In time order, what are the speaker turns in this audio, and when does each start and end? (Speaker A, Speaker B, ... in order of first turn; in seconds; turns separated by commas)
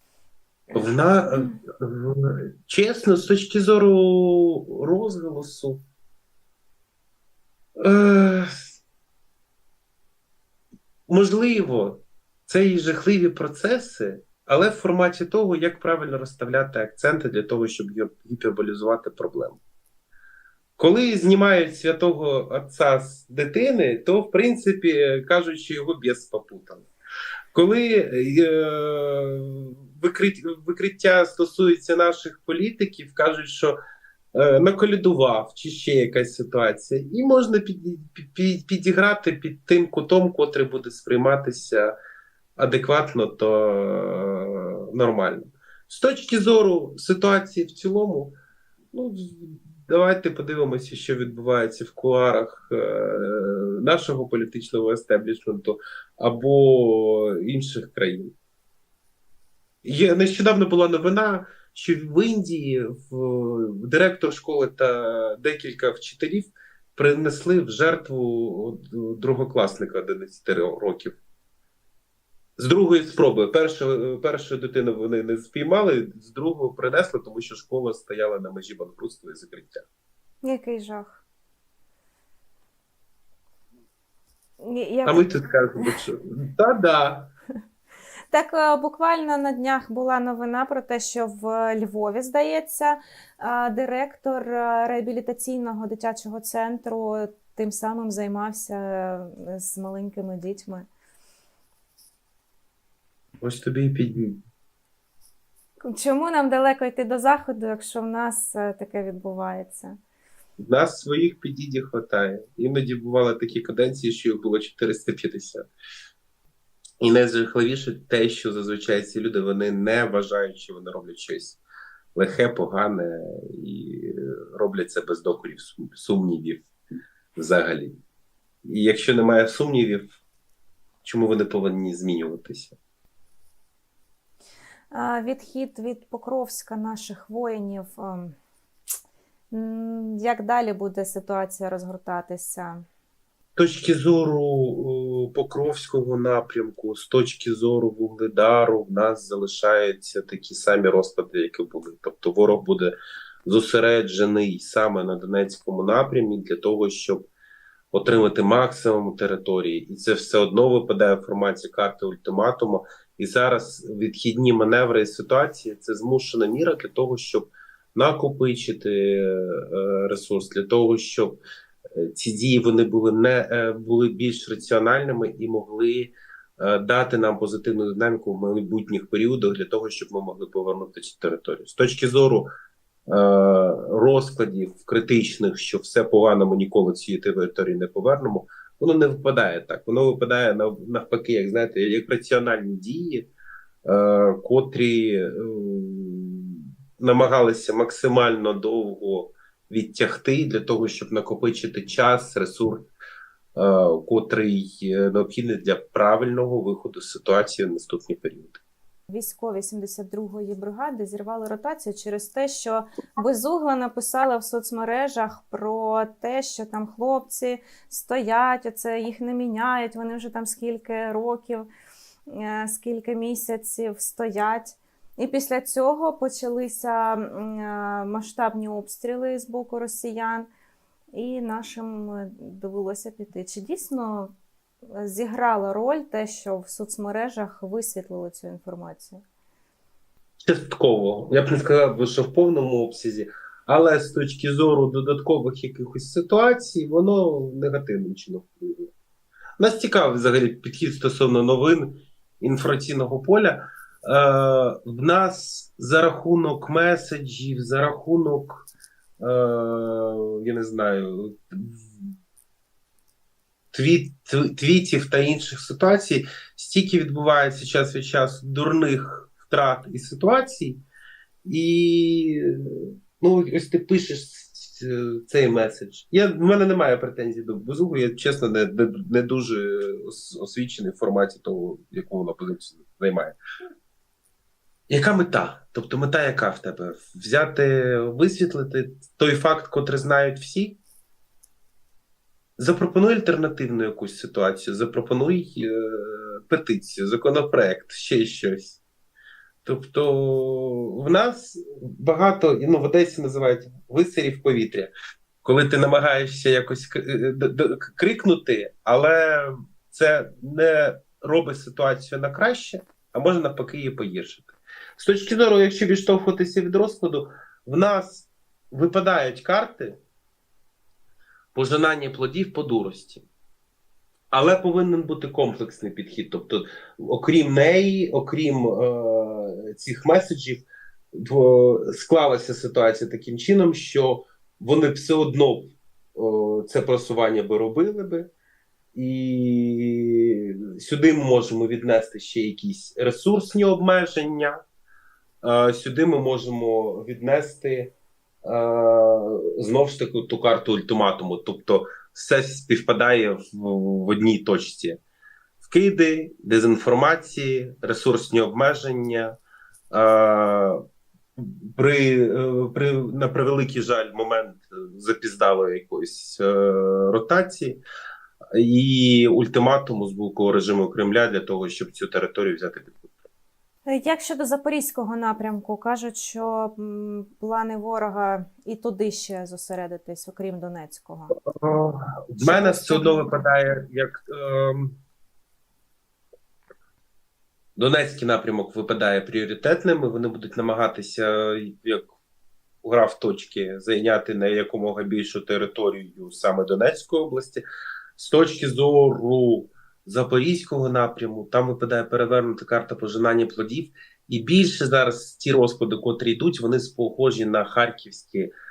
Speaker A: 0.7-5.8, Speaker B: 1.3-1.6, Speaker A: 7.8-8.6, Speaker A: 11.1-19.6, Speaker A: 20.8-26.9, Speaker A: 27.5-33.8, Speaker A: 34.3-41.9, Speaker A: 42.6-48.4, Speaker A: 48.9-58.3, Speaker A: 59.8-71.2, Speaker A: 72.6-79.8, Speaker B: 80.4-81.2, Speaker B: 84.6-86.0, Speaker A: 85.0-87.3, Speaker B: 88.3-100.9, Speaker A: 103.4-104.4, Speaker B: 105.8-110.0, Speaker A: 110.6-115.7, Speaker A: 117.0-121.6, Speaker A: 122.1-126.6, Speaker A: 127.4-128.0, Speaker A: 128.6-130.2, Speaker A: 131.0-132.8, Speaker B: 134.9-138.4, Speaker B: 139.5-142.9, Speaker A: 143.6-152.9, Speaker A: 153.4-157.3, Speaker A: 157.9-171.4, Speaker A: 171.9-182.5, Speaker A: 183.1-193.3, Speaker A: 193.8-202.9, Speaker A: 203.5-208.6, Speaker B: 209.1-221.7, Speaker B: 222.3-230.5, Speaker B: 231.1-234.3, Speaker B: 234.9-239.2, Speaker A: 240.4-248.9, Speaker A: 249.6-258.7, Speaker A: 259.2-262.1, Speaker A: 263.7-270.8, Speaker A: 271.4-283.4, Speaker A: 284.9-290.8, Speaker A: 292.6-298.8, Speaker A: 299.6-304.9, Speaker A: 305.4-320.0, Speaker A: 321.5-323.2, Speaker A: 324.3-338.3, Speaker A: 338.9-344.6, Speaker A: 345.4-347.9, Speaker A: 348.4-355.0, Speaker A: 355.6-359.3, Speaker A: 359.9-360.8, Speaker A: 361.4-367.8, Speaker A: 368.5-373.1, Speaker B: 373.9-381.4, Speaker A: 381.4-385.0, Speaker B: 382.4-383.5, Speaker A: 387.8-392.1, Speaker A: 392.8-397.6, Speaker A: 398.2-408.5